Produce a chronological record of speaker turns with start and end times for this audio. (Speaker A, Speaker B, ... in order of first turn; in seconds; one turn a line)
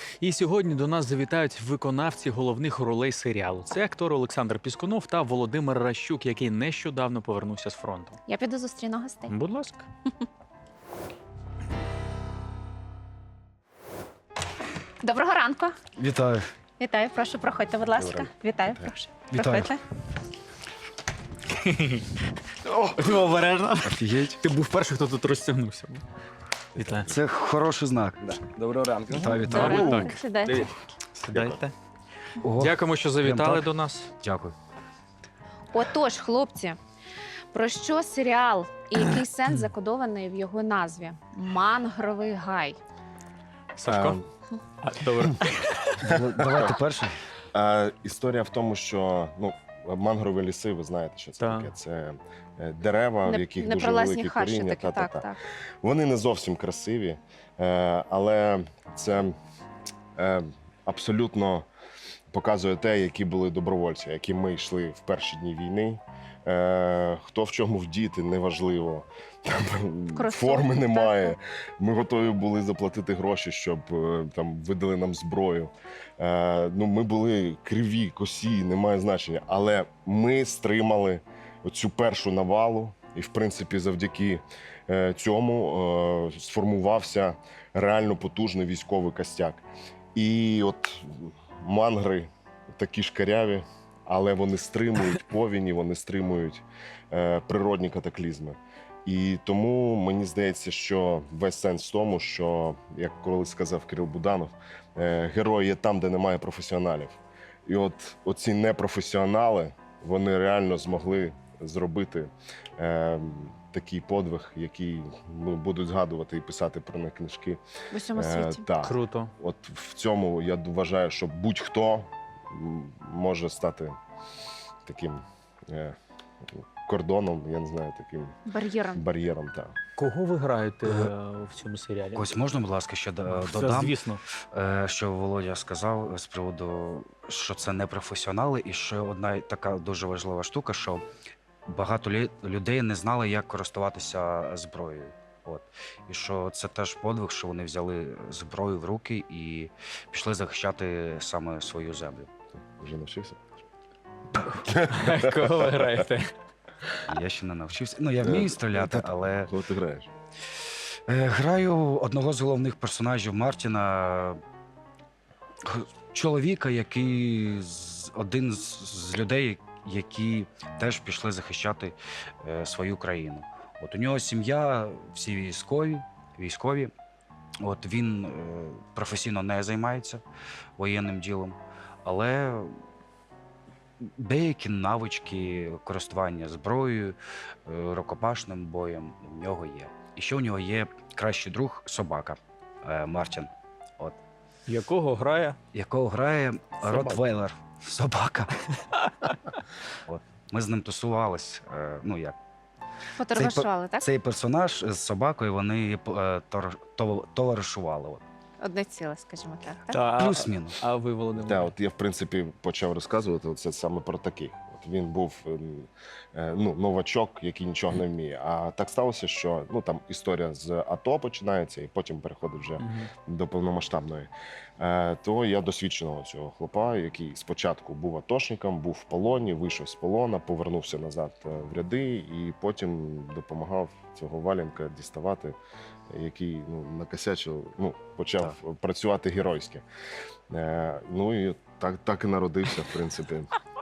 Speaker A: 0.2-8.2
Speaker B: 8.3-9.3
Speaker A: 9.3-9.8
Speaker B: 15.0-15.8
Speaker C: 16.0-16.4
Speaker B: 16.8-19.8
Speaker D: 17.9-18.9
Speaker C: 19.3-19.7
Speaker A: 21.6-22.0
Speaker C: 22.6-23.2
Speaker A: 22.9-26.1
Speaker C: 23.8-24.4
Speaker D: 26.7-27.2
Speaker A: 26.8-27.1
Speaker C: 27.1-30.1
Speaker A: 29.3-31.7
Speaker B: 29.4-30.7
Speaker C: 32.4-33.7
Speaker A: 32.6-34.1
Speaker C: 34.2-34.5
Speaker B: 35.7-36.8
Speaker B: 37.5-42.8
Speaker A: 43.8-44.2
Speaker D: 43.9-44.3
Speaker A: 44.8-46.0
Speaker C: 46.0-47.2
Speaker D: 46.1-46.8
Speaker D: 47.5-55.3
Speaker A: 51.4-51.7
Speaker B: 53.2-55.4
Speaker D: 55.8-59.3
Speaker D: 60.1-61.7
Speaker D: 62.3-117.6
Speaker B: 70.1-71.3
Speaker B: 117.9-118.6
Speaker D: 118.1-124.0
Speaker A: 118.8-119.3
Speaker D: 124.8-126.0
Speaker D: 126.8-128.3
Speaker B: 128.4-129.0
Speaker D: 128.9-129.7
Speaker A: 130.0-132.4
Speaker C: 132.1-134.0
Speaker A: 133.3-134.2
Speaker C: 134.5-141.0
Speaker C: 141.7-152.3
Speaker D: 152.8-153.6
Speaker A: 154.4-156.3
Speaker D: 154.6-155.7
Speaker C: 157.1-159.5
Speaker D: 158.2-160.1
Speaker C: 161.1-164.4
Speaker C: 165.6-176.9
Speaker C: 177.6-180.2
Speaker C: 180.8-182.7
Speaker C: 184.0-194.2
Speaker A: 194.7-195.6
Speaker C: 195.7-198.6
Speaker D: 196.8-197.2
Speaker C: 200.1-202.3
Speaker B: 203.1-204.0
Speaker C: 203.3-208.2
Speaker B: 208.6-210.0
Speaker A: 209.9-211.7
Speaker C: 210.2-210.8
Speaker D: 211.3-235.6
Speaker A: 222.8-223.1
Speaker D: 236.1-239.8
Speaker D: 240.5-243.5